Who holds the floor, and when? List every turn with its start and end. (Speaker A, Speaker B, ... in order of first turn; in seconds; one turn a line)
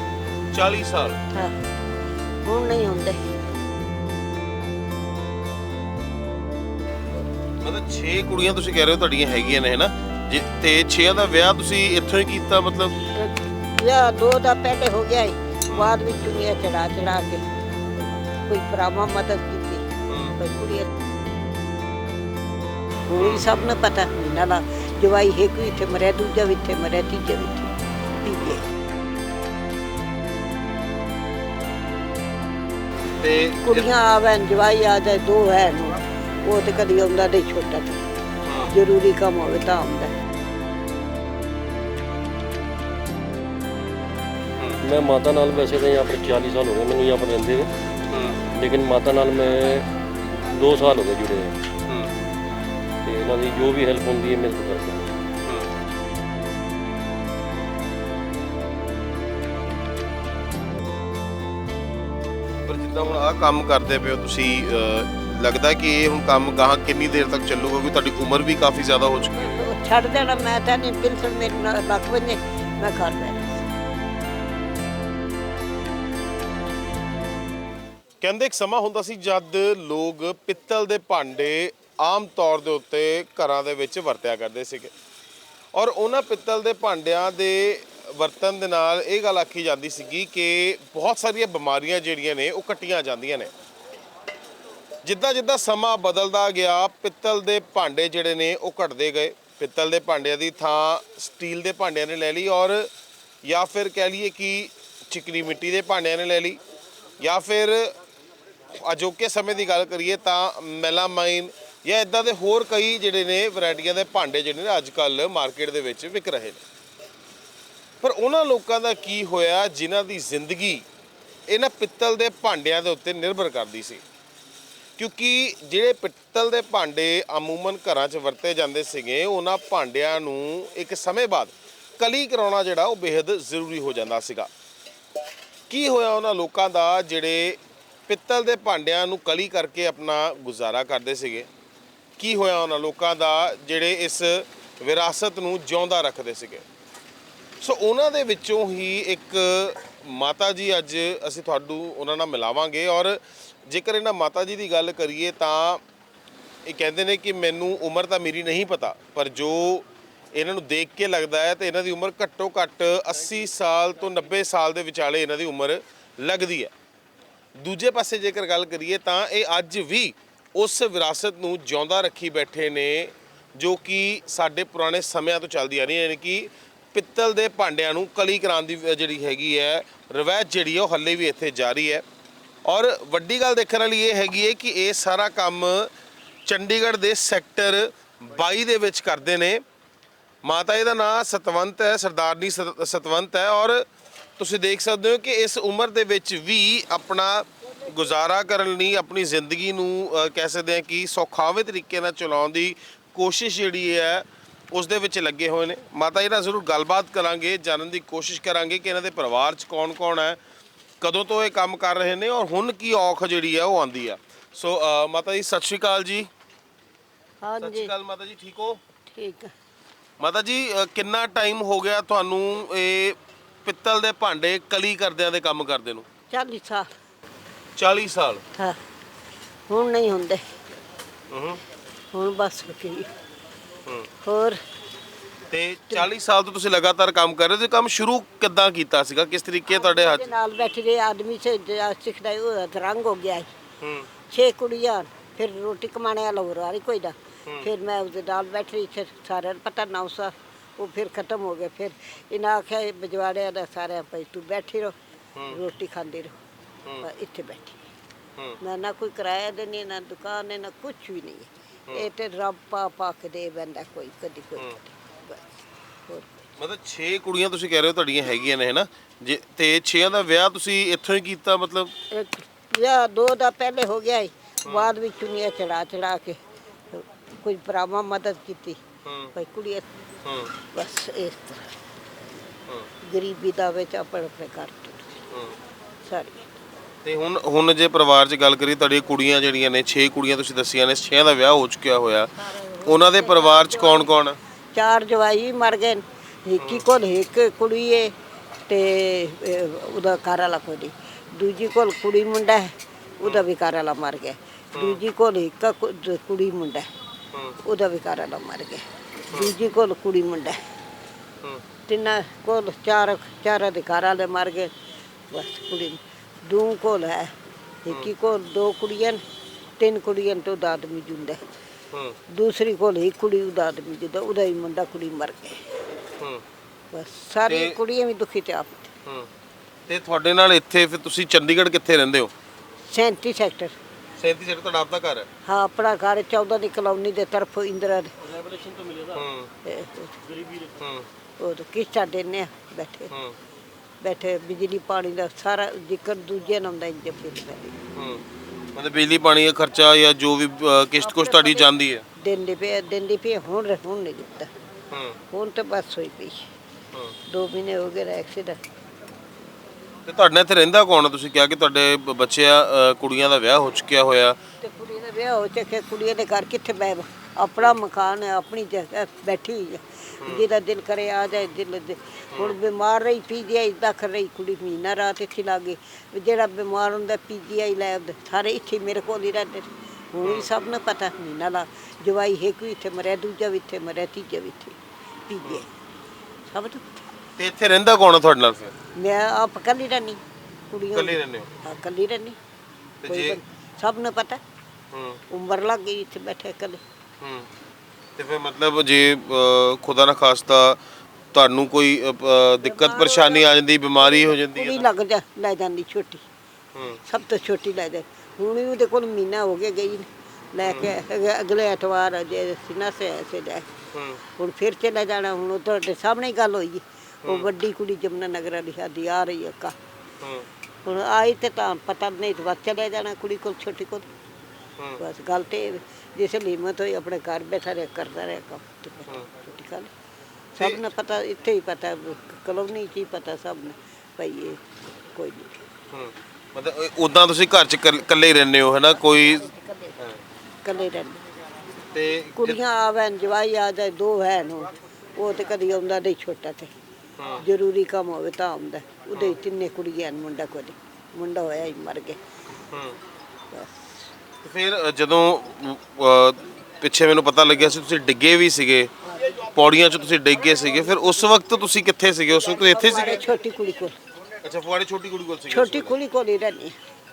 Speaker A: 0.5-1.2
Speaker B: 1.3-1.6
Speaker B: 2.4-3.2
Speaker A: 7.6-12.9
Speaker B: 13.1-17.4
Speaker A: 15.7-16.0
Speaker B: 18.4-19.8
Speaker A: 20.1-20.4
Speaker B: 20.4-20.9
Speaker B: 23.1-28.6
Speaker A: 23.2-23.4
Speaker A: 33.2-33.9
Speaker B: 33.6-38.0
Speaker A: 38.4-38.7
Speaker B: 38.6-40.1
Speaker C: 44.8-47.7
Speaker A: 48.1-48.4
Speaker C: 48.5-51.5
Speaker A: 51.9-52.1
Speaker C: 53.0-55.1
Speaker A: 62.6-69.6
Speaker B: 69.4-73.7
Speaker A: 78.2-84.9
Speaker A: 85.7-93.5
Speaker A: 95.0-102.9
Speaker A: 103.4-106.6
Speaker A: 107.2-108.0
Speaker A: 108.8-116.6
Speaker A: 118.0-120.8
Speaker A: 121.5-124.0
Speaker A: 125.0-134.5
Speaker A: 135.7-141.5
Speaker A: 142.2-146.6
Speaker A: 147.6-155.8
Speaker A: 156.6-166.7
Speaker A: 167.6-182.0
Speaker A: 182.7-185.9
Speaker A: 186.4-189.6
Speaker A: 190.4-193.9
Speaker A: 194.4-210.4
Speaker A: 211.0-216.3
Speaker B: 217.4-217.9
Speaker A: 217.6-218.8
Speaker B: 219.1-219.5
Speaker A: 220.2-226.1
Speaker B: 226.3-226.9
Speaker A: 227.8-228.4
Speaker B: 229.7-230.4
Speaker A: 231.3-231.6
Speaker B: 232.1-233.1
Speaker B: 234.2-234.6
Speaker A: 235.5-240.3
Speaker B: 239.7-243.5
Speaker A: 243.8-244.1
Speaker B: 244.3-254.9
Speaker B: 255.5-256.4
Speaker B: 257.0-257.8
Speaker B: 258.6-265.6
Speaker B: 266.1-266.5
Speaker A: 266.6-271.9
Speaker B: 272.1-276.4
Speaker A: 274.6-274.9
Speaker B: 276.9-278.8
Speaker A: 279.0-279.3
Speaker B: 279.3-279.9
Speaker A: 280.2-280.5
Speaker B: 280.7-281.7
Speaker B: 283.0-285.2
Speaker A: 285.3-285.6
Speaker B: 286.0-286.5
Speaker A: 287.0-292.3
Speaker B: 292.3-294.1
Speaker A: 292.8-294.4
Speaker B: 294.7-298.1
Speaker A: 296.6-296.8
Speaker B: 298.7-306.9
Speaker A: 304.7-305.0
Speaker A: 307.3-307.6
Speaker B: 307.6-310.6
Speaker B: 311.9-314.7
Speaker B: 315.3-317.3
Speaker B: 317.8-319.2
Speaker B: 319.8-321.4
Speaker A: 321.9-322.1
Speaker B: 322.3-325.6
Speaker A: 326.2-326.4
Speaker B: 326.9-328.9
Speaker A: 327.5-327.8
Speaker A: 329.0-329.3
Speaker A: 329.9-332.3
Speaker B: 332.9-333.8
Speaker A: 334.2-335.3
Speaker B: 335.4-338.1
Speaker C: 338.2-339.2
Speaker A: 339.1-339.5
Speaker B: 339.6-340.2
Speaker C: 340.3-340.8
Speaker A: 340.8-341.1
Speaker B: 341.4-343.1
Speaker A: 343.1-343.4
Speaker B: 344.0-347.8
Speaker A: 347.9-348.2
Speaker A: 348.7-352.0
Speaker B: 351.0-354.5
Speaker A: 354.9-355.2
Speaker B: 355.3-356.5
Speaker B: 357.3-358.6
Speaker A: 360.1-364.4
Speaker B: 364.6-385.7
Speaker A: 380.2-380.5
Speaker B: 386.4-387.1
Speaker A: 387.4-388.7
Speaker B: 388.9-392.4
Speaker A: 390.9-391.5
Speaker A: 393.0-393.4
Speaker B: 393.0-394.4
Speaker A: 394.9-395.2
Speaker B: 395.3-396.8
Speaker A: 397.2-397.5
Speaker A: 398.2-400.8
Speaker A: 401.3-404.8
Speaker B: 402.6-403.5
Speaker B: 404.1-406.2
Speaker A: 406.7-407.0
Speaker B: 407.1-413.7
Speaker A: 413.9-414.2
Speaker B: 414.4-419.8
Speaker A: 420.2-420.5
Speaker B: 420.8-424.1
Speaker B: 425.0-429.9
Speaker B: 430.5-434.6
Speaker B: 435.1-435.6
Speaker A: 435.9-440.2
Speaker B: 439.2-439.9
Speaker B: 440.6-441.2
Speaker A: 441.9-442.6
Speaker B: 442.4-446.7
Speaker A: 447.2-447.4
Speaker B: 447.4-452.2
Speaker A: 452.7-452.9
Speaker B: 453.5-454.1
Speaker A: 454.4-463.2
Speaker B: 462.5-463.9
Speaker A: 464.4-465.9
Speaker B: 465.5-466.8